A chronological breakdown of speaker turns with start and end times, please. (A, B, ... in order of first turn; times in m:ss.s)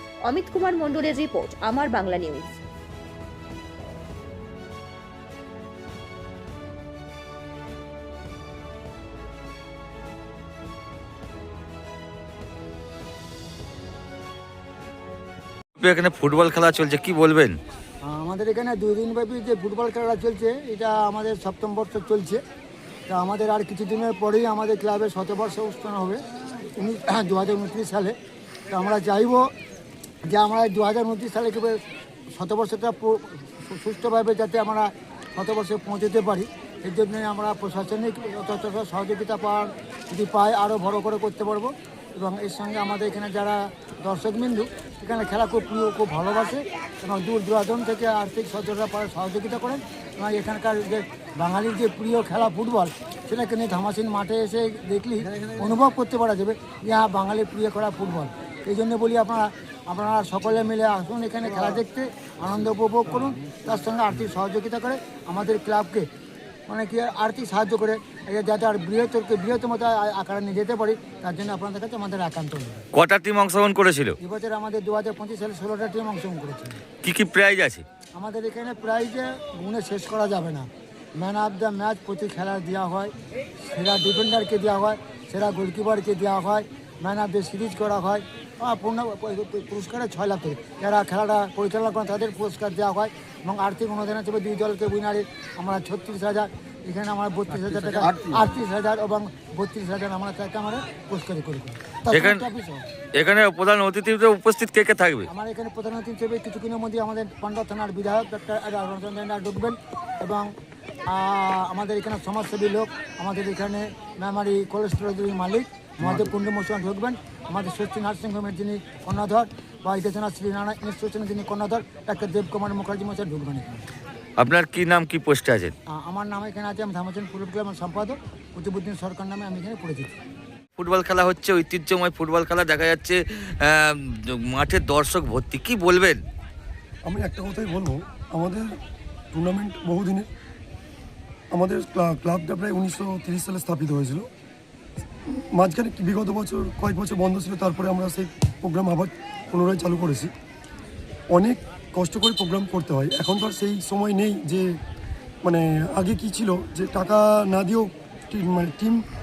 0:00.3-0:02.6 A
0:15.8-0:17.6 B
0:18.0-0:22.4 C
0:23.1-0:28.2 C
0:28.7-0:29.5 C
0:30.2-0:31.8 C
0:32.3-1:06.1 C
1:06.7-1:12.8 C
1:12.9-1:14.2 B
1:14.2-1:16.8 C
1:17.0-1:17.8 B
1:18.1-1:23.1 C
1:23.6-1:42.8 C
1:42.1-1:42.4 B
1:43.2-1:45.3 B
1:45.3-1:50.5 C
1:51.1-2:03.8 C
2:04.4-2:05.7 B
2:05.9-2:10.2 C
2:10.8-2:16.2 B
2:17.0-2:18.8 D
2:19.3-2:20.3 D
2:21.5-2:24.3 D
2:25.3-2:30.3 D
2:31.3-2:34.8 D
2:35.4-2:39.0 D